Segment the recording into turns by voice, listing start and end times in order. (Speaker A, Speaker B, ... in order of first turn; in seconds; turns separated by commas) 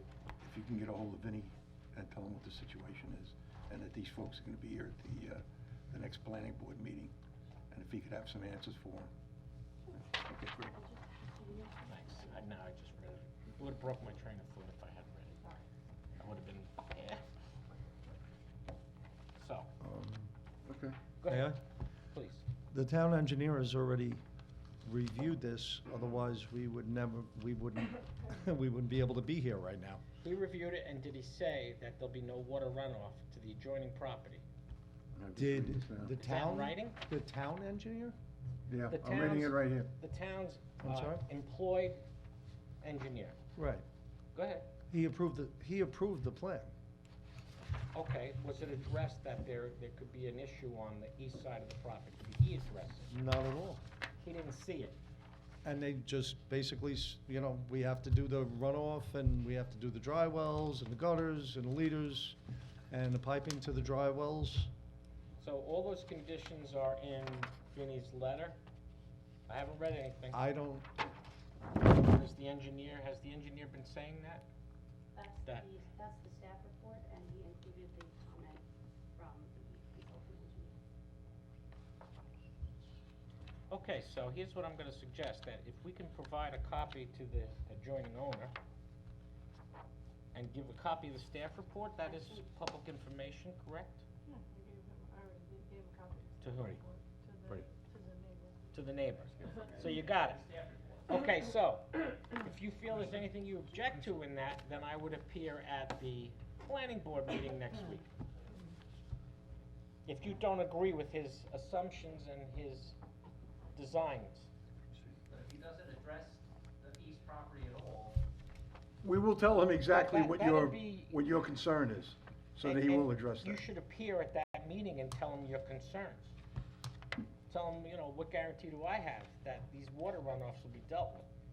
Speaker A: 0.4-7.1, Speaker A: 7.7-9.1, Speaker A: 10.1-10.8, Speaker B: 10.7-12.3, Speaker C: 11.9-15.4, Speaker C: 16.2-17.2, Speaker C: 19.4-19.7, Speaker D: 19.8-20.3, Speaker A: 20.6-21.0, Speaker C: 21.2-21.6, Speaker D: 21.3-21.6, Speaker C: 22.1-22.4, Speaker D: 22.7-24.2, Speaker D: 24.8-30.0, Speaker C: 30.2-34.4, Speaker A: 35.1-36.1, Speaker D: 35.4-38.2, Speaker C: 36.2-37.0, Speaker A: 38.7-39.9, Speaker C: 38.9-42.0, Speaker D: 40.8-41.2, Speaker C: 42.8-43.4, Speaker D: 43.6-43.9, Speaker C: 44.4-44.7, Speaker D: 44.9-46.7, Speaker C: 47.9-53.1, Speaker D: 53.1-53.8, Speaker C: 54.2-55.0, Speaker D: 55.6-62.4, Speaker D: 62.9-64.7, Speaker C: 65.4-68.6, Speaker C: 69.5-70.4, Speaker D: 70.3-70.9, Speaker C: 72.0-74.5, Speaker B: 75.2-78.6, Speaker B: 79.2-80.8, Speaker C: 83.7-88.5, Speaker C: 90.3-94.0, Speaker B: 94.3-94.6, Speaker E: 94.5-98.6, Speaker C: 96.4-96.8, Speaker C: 98.7-100.5, Speaker F: 99.6-101.0, Speaker C: 101.0-108.1, Speaker C: 110.0-113.0, Speaker C: 113.8-114.5, Speaker F: 115.3-118.2, Speaker A: 119.0-123.6, Speaker C: 119.9-121.2, Speaker C: 122.6-126.3, Speaker C: 127.5-131.3